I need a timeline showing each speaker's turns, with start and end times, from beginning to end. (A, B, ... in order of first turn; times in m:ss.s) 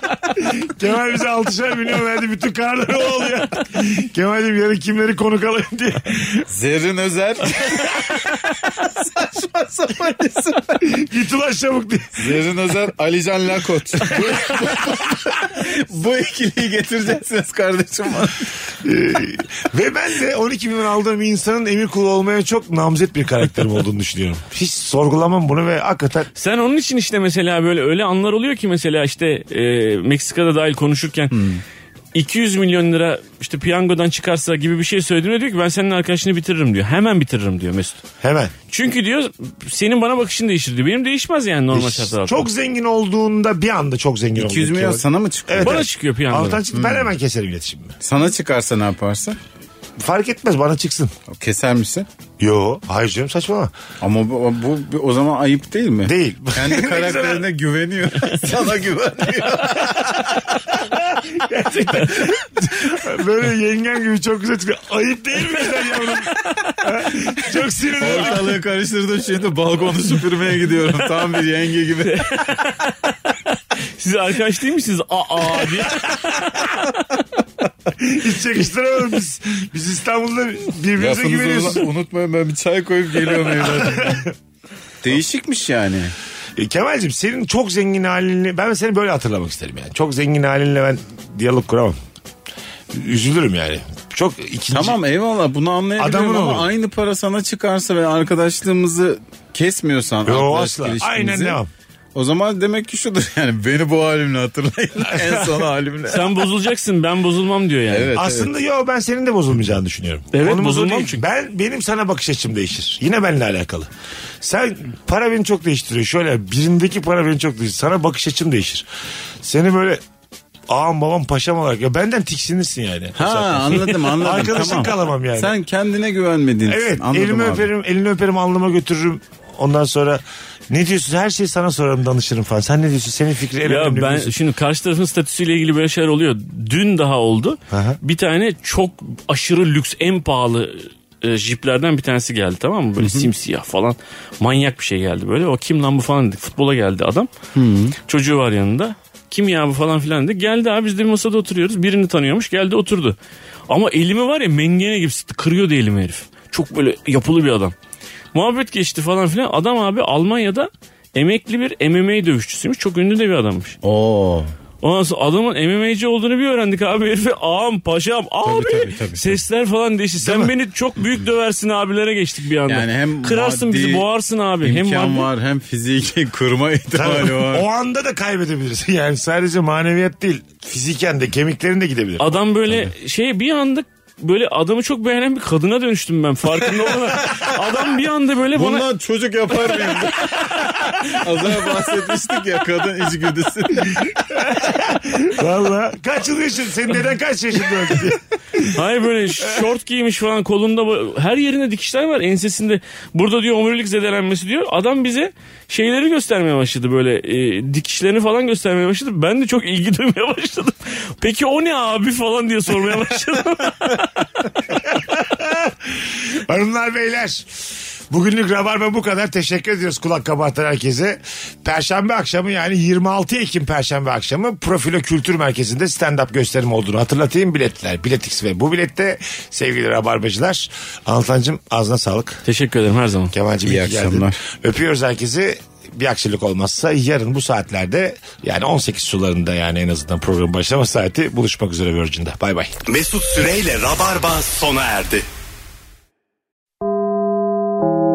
0:00.4-0:06.5 A
0:06.5-0:10.9 B
0:10.8-0:12.4 A
0:12.2-0:18.5 B
0:14.1-0:14.7 A
0:18.8-0:26.3 A
0:26.4-0:31.4 C
0:31.3-0:31.6 B
0:32.2-0:38.0 C
0:38.2-0:38.5 A
0:38.7-0:42.5 C
0:41.7-0:48.0 A
0:44.4-0:45.9 B
0:45.6-0:46.6 C
0:46.7-0:47.1 B
0:48.0-0:49.4 B
0:50.0-0:51.1 A
0:51.3-0:52.1 B
0:52.4-0:53.7 A
0:54.0-1:00.6 B
0:56.0-0:57.4 A
1:00.7-1:08.6 A
1:08.0-1:12.4 B
1:12.0-1:16.7 C
1:18.0-1:21.8 A
1:21.0-1:24.2 B
1:23.4-1:24.3 A
1:25.0-1:26.1 B
1:26.6-1:32.0 A
1:32.9-1:35.0 A
1:34.7-1:41.6 B
1:36.0-1:36.7 A
1:40.2-1:41.7 A
1:42.2-1:46.5 B
1:45.1-1:45.5 A
1:46.1-1:48.1 C
1:47.9-1:48.5 B
1:48.2-1:53.9 A
1:50.3-1:51.2 C
1:54.4-1:58.9 A
1:59.4-2:00.0 A
2:00.7-2:05.5 A
2:03.2-2:07.7 B
2:06.6-2:14.3 A
2:13.6-2:27.3 C
2:17.7-2:18.0 A
2:23.0-2:23.3 B
2:27.5-2:28.0 B
2:28.1-2:33.2 C
2:33.7-2:37.7 C
2:38.3-2:43.8 C
2:43.8-2:44.5 B
2:44.8-2:55.3 C
2:48.4-2:49.4 B
2:50.2-2:50.5 A
2:52.7-2:54.1 B
2:54.6-2:57.7 B
2:56.9-3:02.4 A
3:02.2-3:08.9 C
3:08.5-3:14.2 B
3:14.0-3:18.7 A
3:18.7-3:34.1 C
3:34.7-3:37.5 A
3:38.1-3:52.4 A
3:52.4-3:53.3 C
3:53.3-4:02.8 A
3:53.6-3:54.4 B
4:02.9-4:05.2 D